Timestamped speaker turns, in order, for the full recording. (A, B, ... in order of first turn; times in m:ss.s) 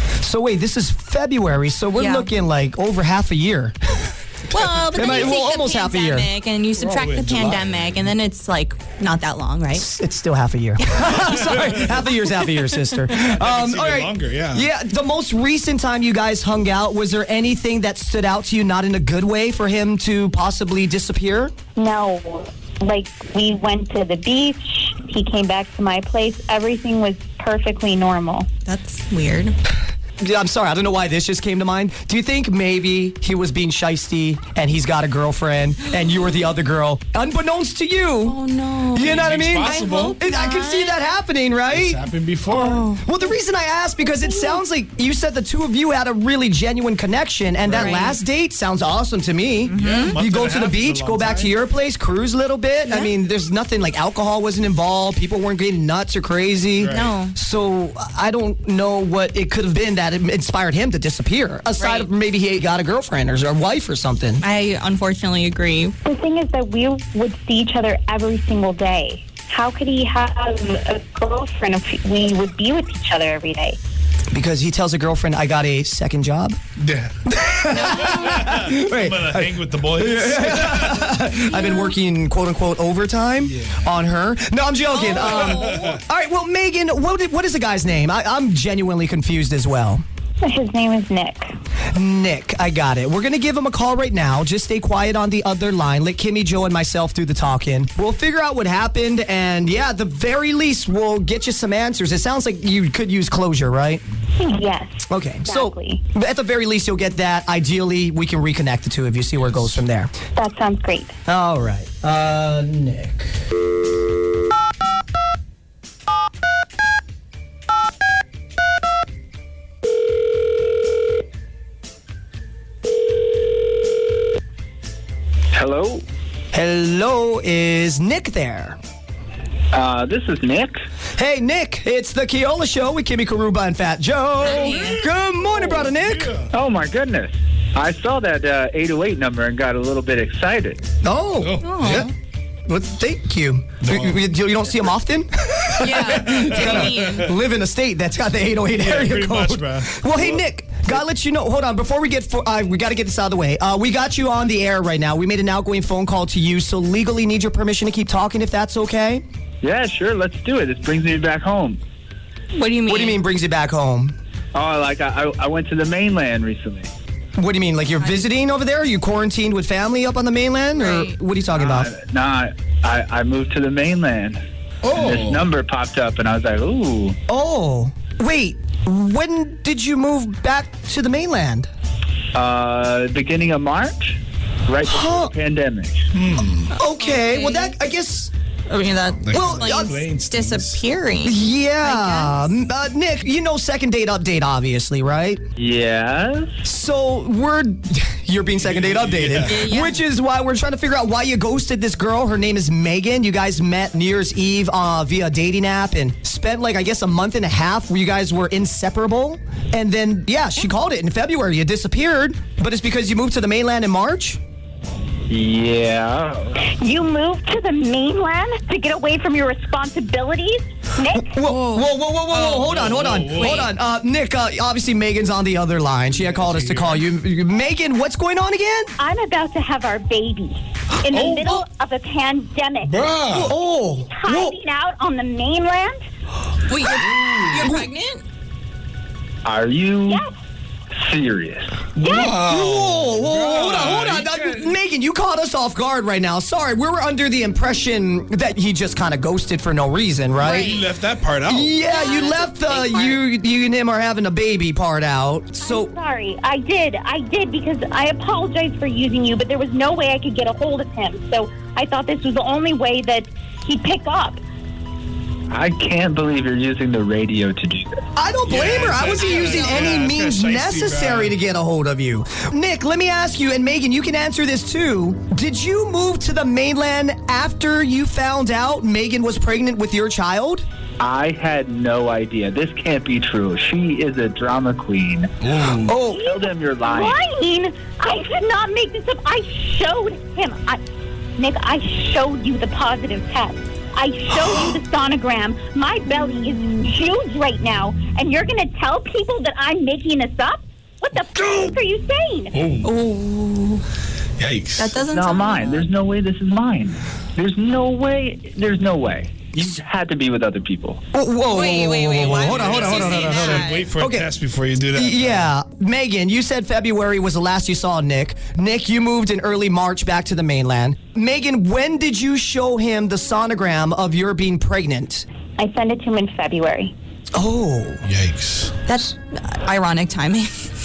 0:00.2-0:03.8 A
0:02.0-0:02.3 B
0:04.5-0:09.8 B
0:04.9-0:06.3 A
0:06.8-0:08.0 C
0:09.7-0:21.5 A
0:11.0-0:12.1 C
0:12.8-0:14.7 C
0:21.8-0:28.5 D
0:28.6-0:29.6 B
0:30.2-0:38.4 A
0:38.2-0:41.0 B
0:38.9-1:04.4 A
0:39.0-0:40.2 C
0:41.7-0:42.7 C
0:42.6-0:43.0 B
0:47.6-0:48.0 C
0:47.8-0:48.2 B
0:49.7-0:51.6 C
0:49.8-0:50.2 B
0:56.8-0:57.1 C
0:56.9-0:57.3 B
1:01.8-1:02.1 B
1:04.4-1:05.9 B
1:06.0-1:13.8 D
1:14.3-1:16.6 A
1:16.8-1:21.3 C
1:17.3-1:30.0 A
1:17.7-1:18.3 B
1:23.4-1:23.8 C
1:24.9-1:25.9 B
1:25.0-1:26.0 C
1:30.4-1:31.5 D
1:31.9-1:44.0 A
1:44.4-1:46.0 D
1:45.1-1:50.1 A
1:50.4-1:51.1 D
1:51.3-1:53.3 A
2:05.5-2:06.0 E
2:06.5-2:08.8 A
2:09.7-2:10.8 E
2:11.2-2:16.3 A
2:14.4-2:15.0 B
2:14.4-2:16.5 C
2:16.5-2:20.8 E
2:21.0-2:22.1 A
2:21.4-2:22.1 C
2:21.6-2:22.1 B
2:22.7-2:39.2 A
2:23.8-2:24.3 C
2:25.8-2:27.2 B
2:26.2-2:27.4 C
2:28.7-2:30.4 C
2:39.6-2:41.8 E
2:42.6-2:43.2 B
2:42.9-2:44.1 A
2:44.6-2:46.9 E
2:47.4-2:51.9 A
2:50.7-2:51.1 B
2:51.5-2:54.4 E
2:54.8-2:55.5 C
2:54.9-2:57.2 E
2:57.3-3:01.7 A
3:02.3-3:06.1 E
3:04.9-3:05.3 A
3:06.1-3:06.8 C
3:06.7-3:08.3 A
3:06.8-3:07.8 B
3:08.7-3:12.5 B
3:09.2-3:10.8 C
3:09.3-3:10.0 A
3:11.2-3:15.4 A
3:15.6-3:16.5 E
3:16.6-3:34.4 A
3:18.6-3:19.6 C
3:19.4-3:20.0 B
3:35.3-3:36.6 E
3:36.6-3:41.3 D
3:41.1-3:48.9 A
3:41.5-3:42.6 B
3:42.6-3:43.7 C
3:46.1-3:47.1 C
3:49.0-3:53.0 D
3:51.1-3:51.6 C
3:52.8-3:53.5 C
3:53.3-3:54.6 A
3:53.9-3:56.0 D
3:56.7-3:58.2 B
3:57.0-3:57.7 C
3:57.5-3:57.9 A
3:59.4-4:00.2 E
4:00.1-4:00.3 D
4:01.0-4:01.8 E
4:02.0-4:04.8 C
4:02.0-4:02.4 D
4:02.2-4:10.8 A
4:10.5-4:10.8 B
4:10.6-4:11.9 C
4:11.5-4:15.9 A
4:11.9-4:13.2 B
4:12.0-4:12.3 D
4:15.6-4:24.4 D
4:25.5-4:28.0 E
4:28.2-4:40.6 A
4:28.4-4:31.4 C
4:41.0-4:45.3 E
4:45.4-4:45.9 C
4:45.8-4:46.3 A
4:46.1-4:47.2 E
4:46.8-4:50.8 D
4:51.4-5:02.5 D
5:02.5-5:02.9 C
5:02.8-5:03.8 B
5:04.4-5:05.0 C
5:04.8-5:05.8 B
5:05.1-5:11.0 E
5:11.1-5:14.3 A
5:11.5-5:13.8 B
5:12.2-5:15.5 C
5:14.9-5:25.2 A
5:25.6-5:26.9 D
5:27.3-5:28.0 A
5:28.0-5:28.8 C
5:28.9-5:30.6 B